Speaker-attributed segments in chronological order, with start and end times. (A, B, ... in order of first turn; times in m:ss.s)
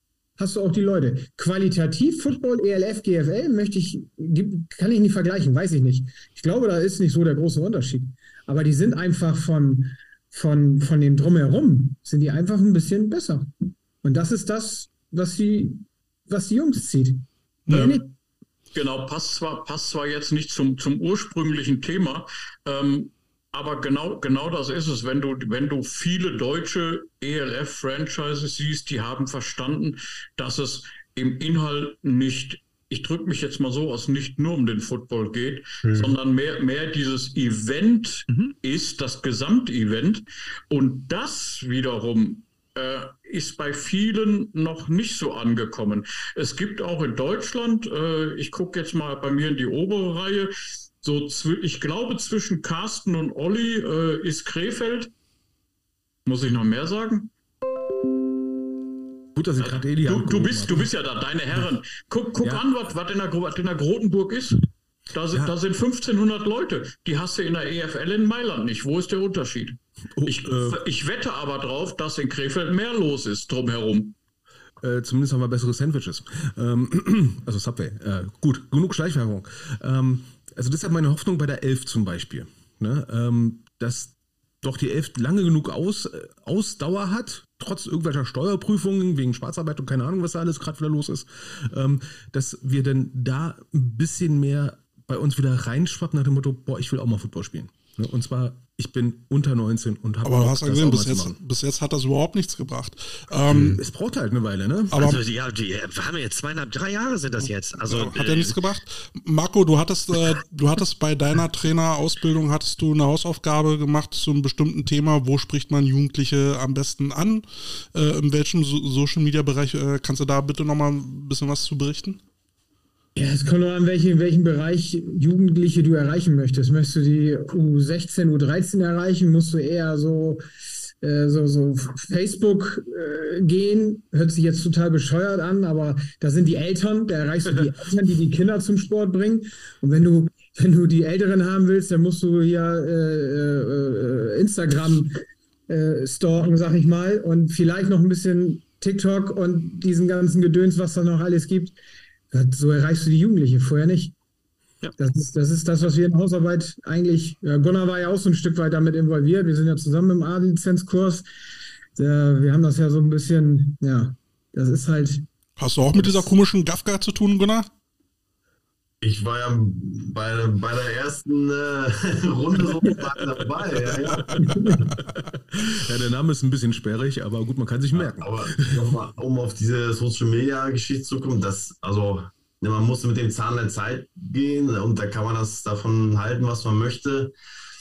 0:00.4-0:18.1 A
0:17.7-0:18.1 B
0:18.7-0:50.5 B
0:38.3-0:38.5 C
0:51.0-0:55.1 B
0:56.2-0:57.3 B
0:59.3-1:00.9 D
0:59.6-1:14.2 B
1:10.1-1:10.8 D
1:14.8-1:41.4 D
1:40.2-1:43.8 E
1:43.4-1:45.0 D
1:44.9-1:45.2 E
1:44.9-1:48.6 C
1:47.5-2:02.2 E
2:03.2-2:10.4 A
2:11.0-2:31.7 A
2:32.3-2:34.1 A
2:35.0-2:41.2 A
2:42.0-2:45.2 A
2:45.6-2:47.7 E
2:49.0-2:54.9 F
2:54.4-2:58.9 D
2:57.9-3:07.3 F